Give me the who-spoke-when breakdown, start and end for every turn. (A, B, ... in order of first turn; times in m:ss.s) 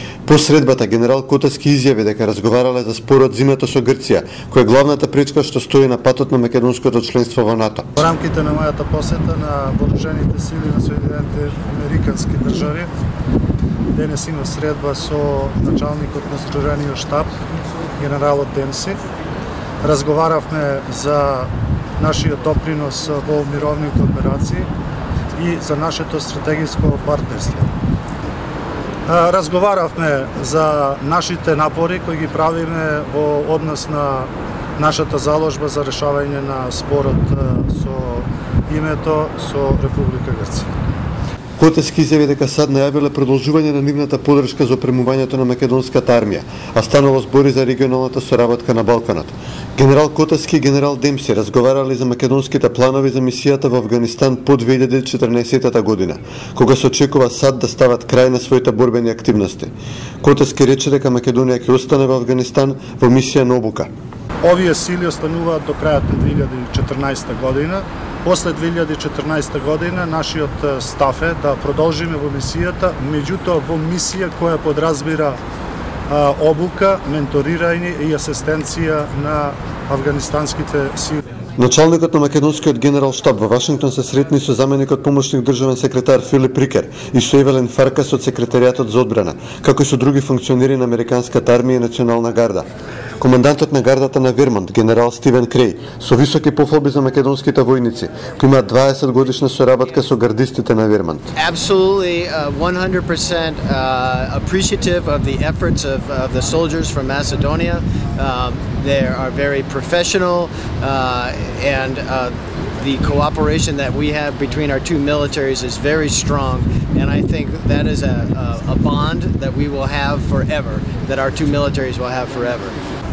0:00.2-0:07.9 A
0:08.0-0:12.9 B
0:13.9-0:17.3 B
0:18.0-0:19.0 B
0:19.8-0:24.7 B
0:25.4-0:27.7 B
0:29.0-0:40.7 B
0:41.6-0:59.7 A
1:00.2-1:03.9 A
1:04.4-1:15.4 B
1:16.1-1:21.2 B
1:21.6-1:32.7 A
1:33.2-1:41.2 A
1:41.3-2:02.8 C